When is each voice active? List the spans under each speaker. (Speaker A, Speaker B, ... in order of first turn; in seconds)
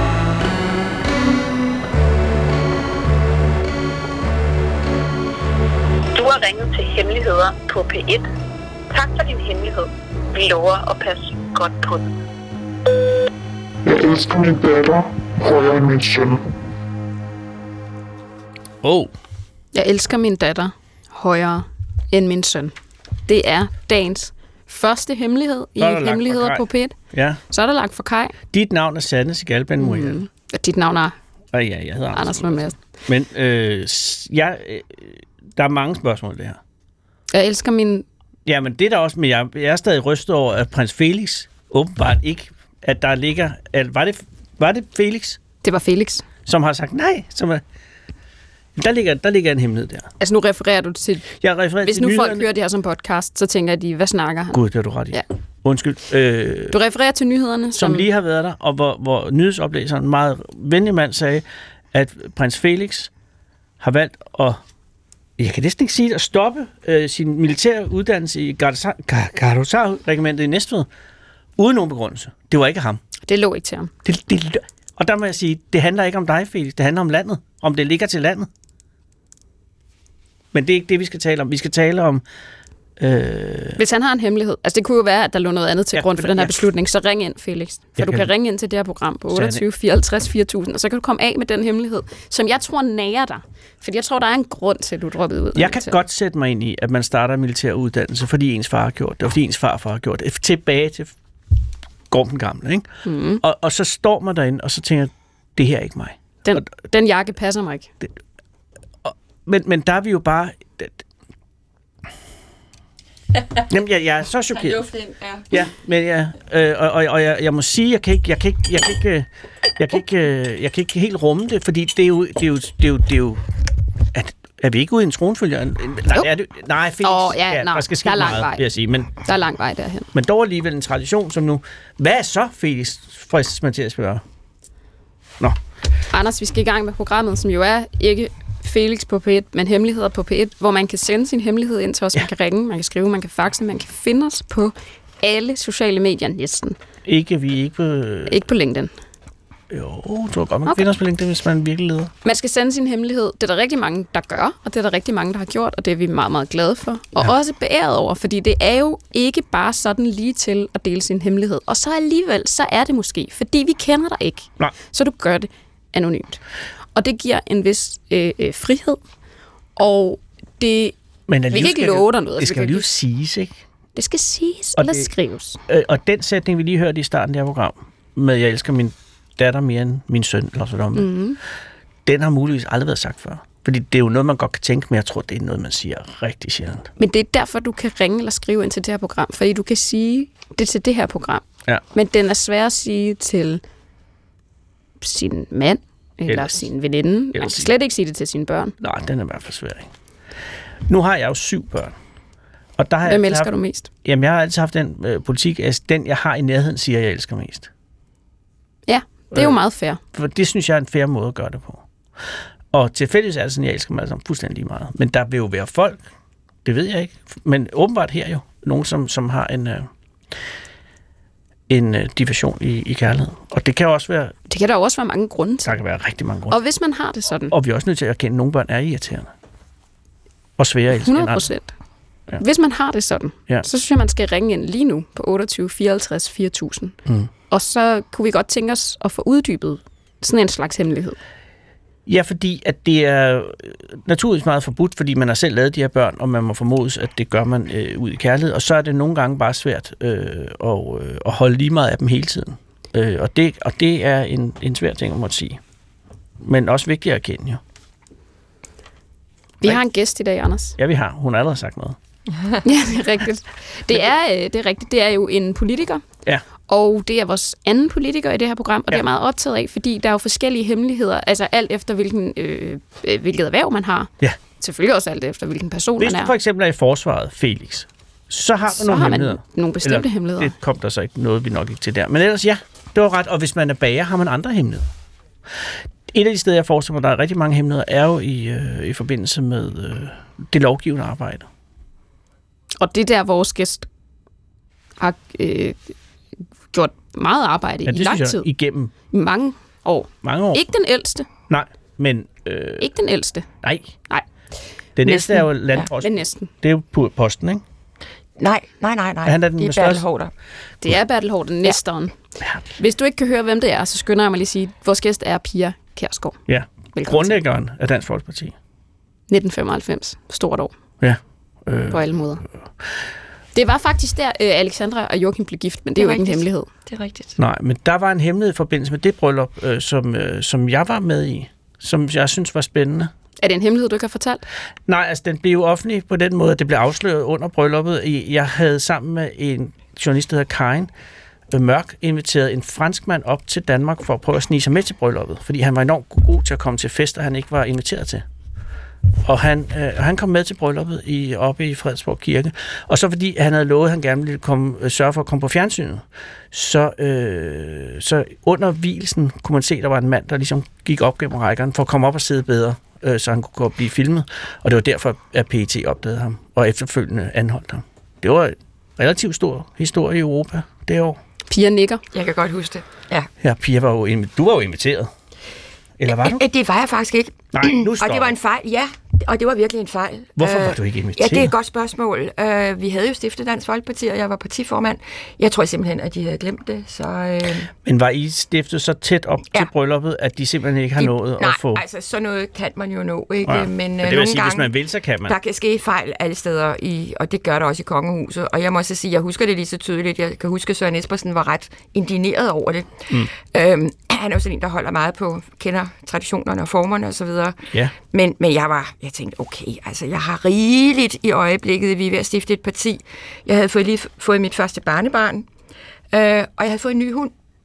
Speaker A: 6.2-8.3, 8.9-12.1
Speaker B: 13.8-16.4
Speaker C: 18.8-19.1, 25.8-27.4, 28.5-30.2, 31.5-36.6, 38.5-45.4, 46.5-47.6, 48.8-50.1, 51.4-52.5, 54.5-56.8, 57.8-63.1, 63.8-64.6, 65.4-70.9, 71.6-73.0, 74.0-78.5, 80.5-82.2, 83.0-83.8, 85.9-86.5, 88.0-88.3, 89.3-89.6, 95.5-101.1, 102.1-106.7, 109.0-111.0, 113.7-114.9, 115.5-123.5, 124.1-129.1, 130.1-134.2, 147.1-148.4, 149.7-152.1, 171.3-173.6, 174.8-175.1, 175.7-181.1, 182.1-186.9, 196.3-196.7, 197.3-197.7, 198.8-199.9, 200.9-201.9, 202.8-203.5, 204.0-207.7, 209.3-209.6, 210.1-211.9, 212.7-216.0, 216.7-219.9, 221.7-224.3, 225.6-226.6, 227.5-229.3, 230.6-231.5, 237.1-237.3, 242.1-255.6, 256.4-257.6, 260.8-262.0, 276.0-284.9, 286.1-291.5, 297.9-298.9, 300.2-300.6, 301.5-302.9, 303.6-303.9, 305.0-307.6, 309.2-310.1, 312.4-312.7, 316.5-318.6, 321.0-322.9, 327.4-333.1, 334.9-340.9, 341.5-348.2, 349.2-371.2, 373.4-375.1, 376.0-376.4, 377.5-378.4, 380.4-381.5, 387.9-391.8, 393.4-395.4
Speaker D: 19.7-22.7, 23.3-26.9, 27.5-28.4, 29.8-31.1, 32.1-32.8, 37.3-38.1, 45.6-46.2, 50.2-51.3, 51.8-54.6, 56.7-58.1, 73.3-73.9, 83.8-96.0, 103.0-103.4, 106.4-107.9, 127.0-128.6, 129.2-130.1, 136.1-146.8, 148.3-148.9, 152.2-166.4, 166.9-169.0, 169.8-170.9, 171.5-173.0, 174.0-175.6, 180.9-181.4, 187.0-193.6, 195.0-198.8, 203.1-203.9, 208.9-210.0, 224.5-225.7, 226.5-227.5, 231.0-231.7, 232.4-237.0, 237.5-241.2, 259.6-260.8, 262.6-266.0, 266.7-276.3, 278.7-280.5, 292.8-293.9, 295.0-295.9, 296.7-298.5, 299.1-301.3, 302.8-303.5, 306.0-306.5, 310.8-312.1, 312.8-316.4, 316.9-317.4, 319.3-320.7, 321.9-322.4, 323.6-326.7, 333.4-334.4, 371.5-372.0
Speaker E: 114.6-115.5, 305.1-305.9, 308.4-310.3, 326.0-327.4, 372.1-373.3, 376.1-387.7, 391.0-394.7, 395.3-415.5, 416.1-417.3